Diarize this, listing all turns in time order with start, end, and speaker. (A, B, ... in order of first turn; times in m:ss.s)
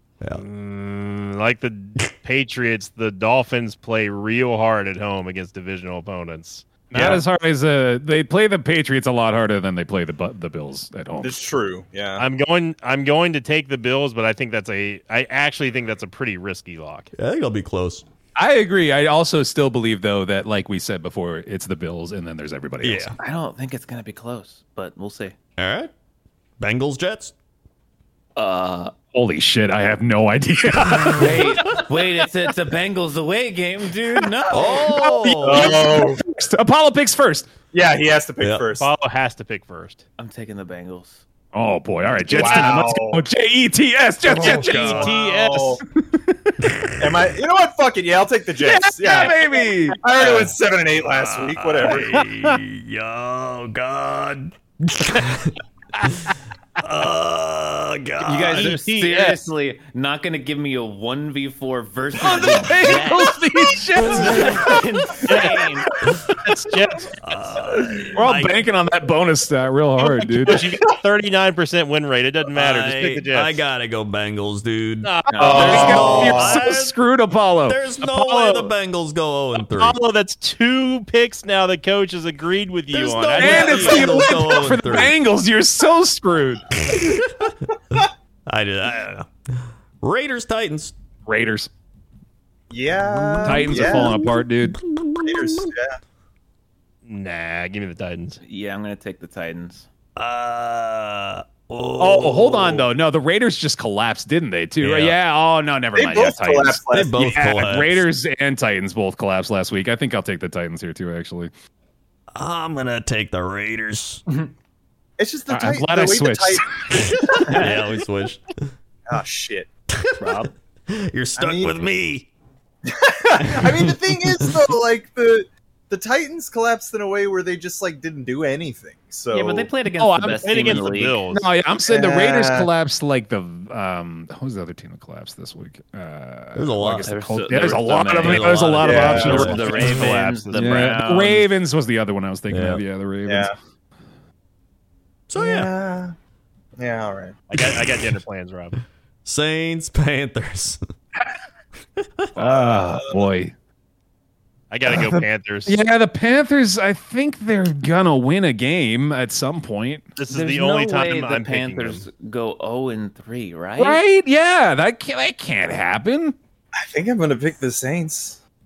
0:00.3-0:06.7 A
0:06.9-0:11.4 B
0:06.9-0:07.2 C
0:11.2-0:12.2 C
0:12.2-0:17.1 A
0:17.2-0:18.0 D
0:18.4-0:23.1 B
0:22.8-0:23.2 D
0:23.2-0:25.4 E
0:25.6-0:25.9 D
0:26.6-0:27.3 D
0:28.4-0:29.0 E
0:29.1-0:31.9 B
0:30.8-0:31.2 D
0:31.1-0:35.1 E
0:34.1-0:37.5 B
0:34.5-0:35.8 D
0:35.4-0:36.3 C
0:37.7-0:38.9 C
0:38.4-0:38.7 D
0:38.8-0:40.0 A
0:40.2-0:41.2 E
0:41.5-0:45.2 B
0:42.3-0:43.3 C
0:42.3-0:42.8 A
0:44.2-0:45.1 D
0:44.4-0:45.8 C
0:44.5-0:45.8 A
0:45.9-0:46.6 B
0:46.6-0:47.3 D
0:47.0-0:52.2 C
0:48.6-0:50.0 B
0:51.1-0:55.6 D
0:51.9-0:52.6 B
0:56.8-0:58.7 D
0:58.2-1:03.4 E
0:58.6-0:59.3 A
0:59.0-0:59.4 B
1:02.2-1:05.5 B
1:04.0-1:05.9 E
1:05.3-1:05.6 A
1:06.3-1:06.8 B
1:06.4-1:07.1 A
1:07.2-1:08.6 D
1:08.1-1:10.7 B
1:10.0-1:13.6 A
1:10.5-1:10.7 C
1:12.5-1:17.0 D
1:15.0-1:16.4 A
1:15.3-1:16.3 E
1:15.4-1:17.8 B
1:15.5-1:16.6 C
1:17.6-1:20.0 D
1:18.0-1:18.7 A
1:19.6-1:24.3 A
1:22.9-1:25.2 D
1:23.4-1:26.7 B
1:26.8-1:27.5 D
1:28.5-1:31.0 D
1:31.3-1:31.7 B
1:32.7-1:34.3 C
1:33.1-1:35.7 D
1:33.4-1:34.8 B
1:35.2-1:36.0 C
1:37.0-1:38.4 A
1:38.4-1:39.9 E
1:40.2-1:42.9 D
1:42.0-1:51.5 B
1:44.8-1:45.2 D
1:45.9-1:47.3 C
1:46.9-1:48.1 D
1:52.4-1:54.2 D
1:55.2-1:57.7 C
1:55.5-1:57.6 B
1:57.5-1:58.7 D
1:59.1-1:59.7 C
1:59.9-2:02.3 D
2:00.2-2:00.5 E
2:01.4-2:01.7 C
2:02.9-2:09.7 C
2:03.4-2:04.6 D
2:09.3-2:11.2 E
2:09.9-2:23.5 B
2:10.3-2:11.5 A
2:11.8-2:12.7 C
2:16.6-2:17.2 D
2:17.0-2:21.5 E
2:18.2-2:19.8 D
2:18.8-2:19.6 C
2:19.3-2:21.0 A
2:22.5-2:22.8 D
2:23.3-2:23.5 C
2:25.3-2:25.7 D
2:25.4-2:26.2 C
2:26.8-2:27.4 C
2:27.5-2:28.8 A
2:29.2-2:30.8 D
2:32.0-2:32.3 D
2:32.4-2:33.5 B
2:32.4-2:33.3 C
2:34.7-2:35.8 A
2:34.9-2:40.1 B
2:40.2-2:42.1 A
2:40.3-2:44.0 E
2:43.8-2:46.4 B
2:46.8-2:48.4 C